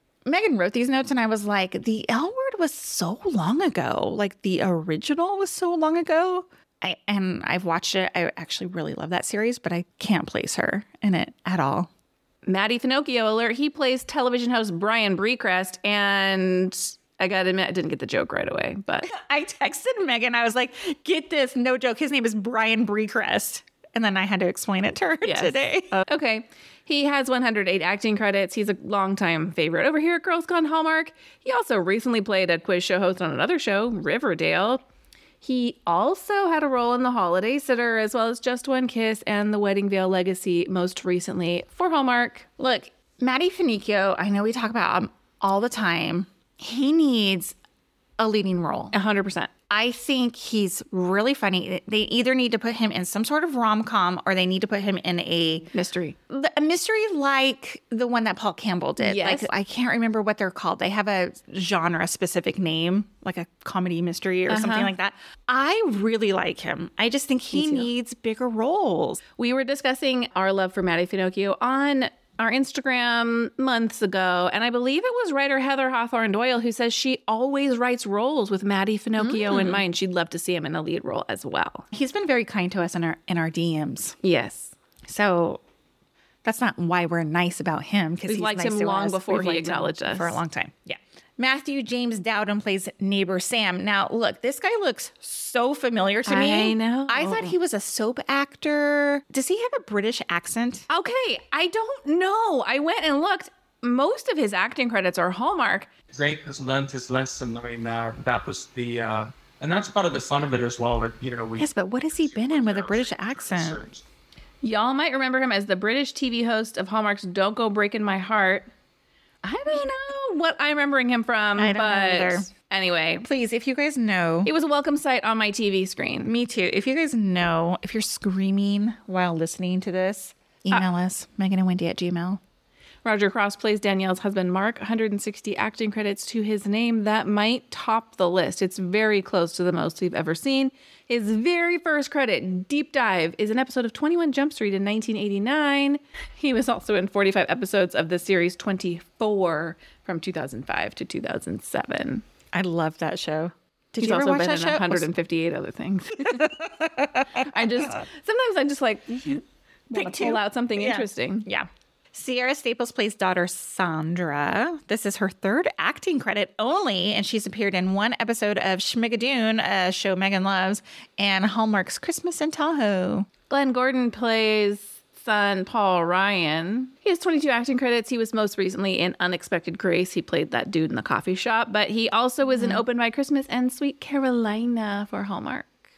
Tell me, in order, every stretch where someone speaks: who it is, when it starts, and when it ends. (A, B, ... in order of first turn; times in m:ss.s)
0:00.2-0:11.9 A
0:12.4-0:19.1 B
0:19.0-0:26.0 A
0:25.2-0:34.8 B
0:35.4-0:42.5 B
0:42.6-0:47.5 A
0:48.2-0:48.9 A
0:48.9-0:49.5 B
0:49.7-0:55.7 A
0:55.7-0:56.2 B
0:56.3-1:09.2 A
0:59.0-0:59.5 B
1:04.5-1:04.9 B
1:07.5-1:07.9 B
1:09.4-1:21.9 B
1:19.2-1:19.8 A
1:21.9-1:24.2 A
1:24.2-1:24.7 B
1:25.0-1:25.6 A
1:26.4-1:40.9 A
1:28.3-1:30.4 B
1:36.2-1:37.5 B
1:40.9-1:45.9 B
1:46.1-1:51.6 C
1:51.6-1:53.8 A
1:52.3-1:54.0 C
1:54.6-1:58.7 B
1:59.4-2:03.3 B
2:01.6-2:02.5 A
2:03.2-2:04.5 A
2:04.4-2:06.3 B
2:06.2-2:12.4 A
2:13.0-2:32.2 B
2:32.5-2:35.1 A
2:34.0-2:36.5 B
2:36.2-2:37.4 A
2:37.3-2:41.4 B
2:39.9-2:53.3 A
2:53.5-3:05.7 B
3:02.5-3:02.8 A